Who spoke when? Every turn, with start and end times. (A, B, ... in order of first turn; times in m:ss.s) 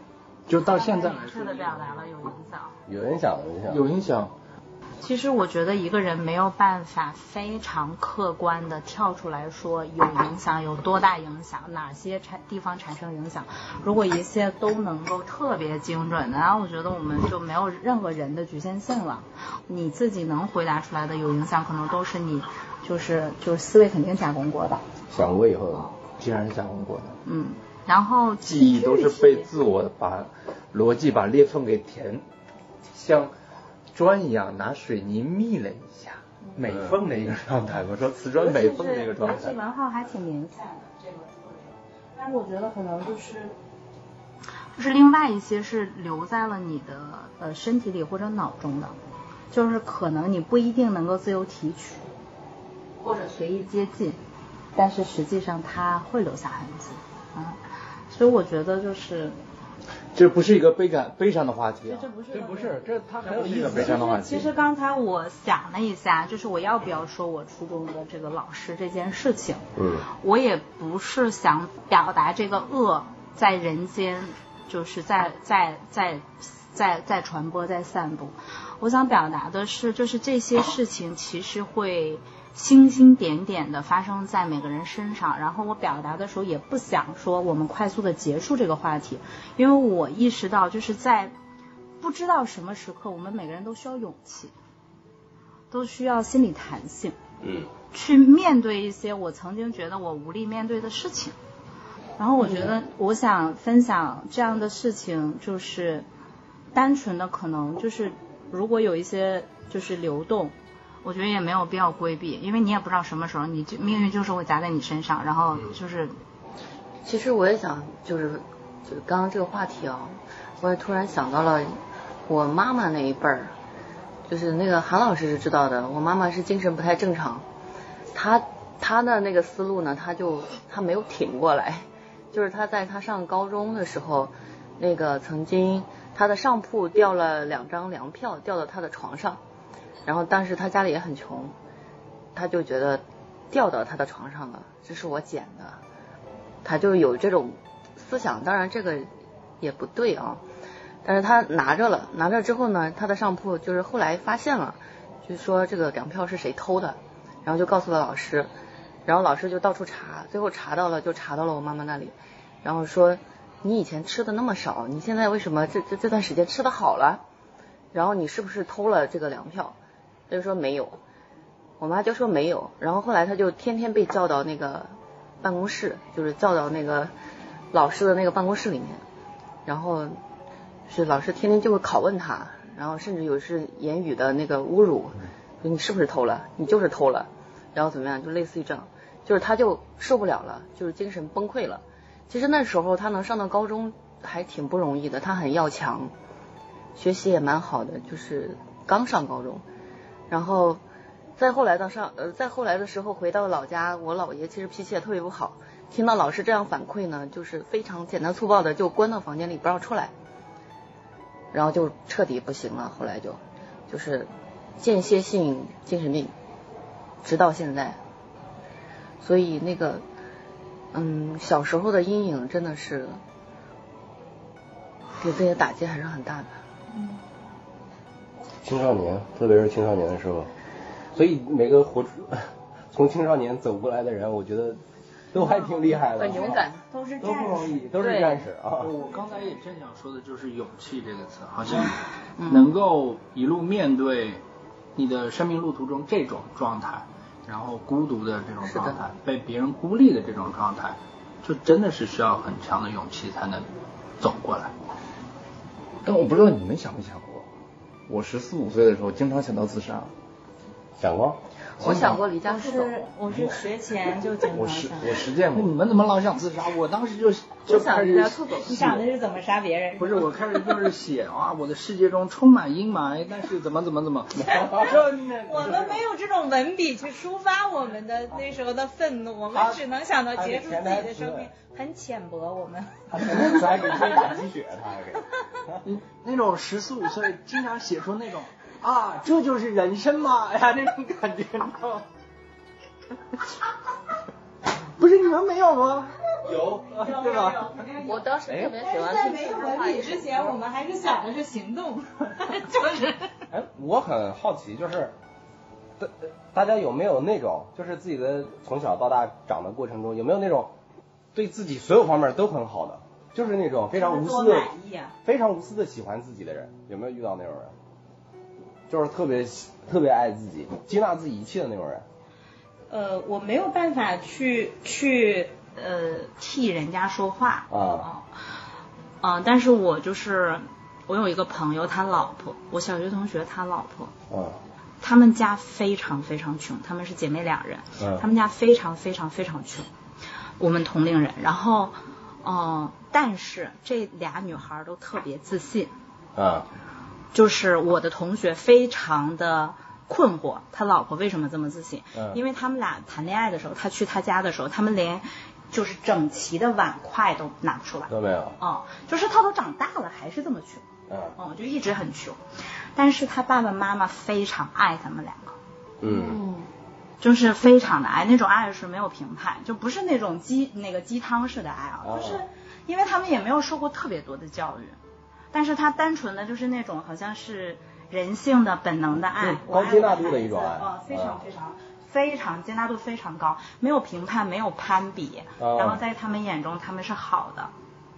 0:00.5-0:02.1 A
0:00.6-0:02.8 B
0:02.9-0:03.8 C
0:03.7-0:04.3 D
0:05.0-0:24.8 B
0:25.1-0:25.9 C
0:26.2-0:27.2 D
0:27.2-0:29.5 B
0:28.4-0:32.2 D
0:32.9-0:33.3 D
0:33.9-0:39.6 D
0:36.7-0:37.0 C
0:38.4-0:43.6 B
0:44.8-0:49.0 B
0:49.5-0:52.1 B
0:53.0-0:54.2 B
0:54.8-0:57.6 B
0:58.1-0:59.4 B
1:00.1-1:02.1 D
1:01.8-1:31.3 B
1:02.3-1:04.1 C
1:03.2-1:04.5 D
1:09.8-1:10.1 C
1:32.0-1:34.5 B
1:35.7-1:37.2 B
1:37.4-1:37.7 C
1:37.9-1:41.4 B
1:42.2-1:46.1 B
1:46.7-1:56.2 B
1:57.0-2:03.5 E
2:04.3-2:07.4 E
2:08.1-2:19.4 E
2:20.1-2:21.6 E
2:22.4-2:25.8 E
2:26.6-2:29.1 E
2:29.6-2:30.4 E
2:31.0-2:38.5 E
2:39.1-2:47.2 E
2:47.9-2:49.8 E
2:50.3-2:51.0 E
2:51.8-2:57.1 E
2:57.7-2:59.0 E
2:59.6-3:00.2 E
3:00.9-3:16.1 E
3:17.0-3:19.6 E
3:20.3-3:20.8 E
3:21.4-3:30.1 E
3:31.5-3:34.3 E
3:34.8-3:36.3 E
3:37.2-3:38.0 E
3:39.2-3:40.0 E
3:40.9-3:43.2 E
3:45.2-3:46.5 E
3:48.6-3:50.5 C
3:51.1-3:54.8 C
3:55.3-3:56.6 C
3:55.4-3:57.9 B
3:56.2-3:56.8 E
3:57.2-3:58.9 C
3:58.0-3:58.4 E
3:58.8-4:02.0 A
4:02.4-4:02.7 E
4:02.5-4:04.4 A
4:05.0-4:13.7 A
4:08.6-4:09.0 E
4:14.2-4:14.7 A
4:16.0-4:17.5 D
4:18.1-4:20.1 D
4:21.0-4:22.2 C
4:21.8-4:23.0 E
4:22.4-4:25.2 B
4:24.5-4:25.7 D
4:25.5-4:29.0 A
4:27.7-4:28.8 E
4:28.6-4:30.5 B
4:30.0-4:36.0 A
4:34.4-4:34.9 C
4:35.4-4:44.4 B
4:39.5-4:41.5 C
4:43.1-4:45.8 C
4:43.5-4:43.8 A
4:45.8-4:52.1 A
4:55.0-4:56.2 A
4:56.5-5:03.5 B
4:57.0-4:57.7 A
4:58.0-5:00.5 E
5:03.5-5:05.1 C
5:06.0-5:10.7 C
5:11.3-5:14.7 C
5:13.9-5:15.2 B
5:15.2-5:17.7 C
5:18.9-5:22.0 C
5:22.9-5:28.4 B
5:27.7-5:28.1 C
5:29.2-5:34.1 B
5:34.3-5:34.6 C
5:35.0-5:39.9 B
5:38.0-5:38.2 C
5:40.6-5:45.9 B
5:46.4-5:46.7 C
5:47.3-6:02.4 B
5:52.2-5:52.4 C
5:58.1-5:58.6 C
6:01.1-6:01.4 C
6:03.0-6:05.6 B
6:06.0-6:06.4 C
6:06.0-6:06.7 E
6:07.2-6:15.0 B
6:12.0-6:12.4 C
6:15.5-6:27.7 B
6:19.4-6:21.4 C
6:25.6-6:26.0 C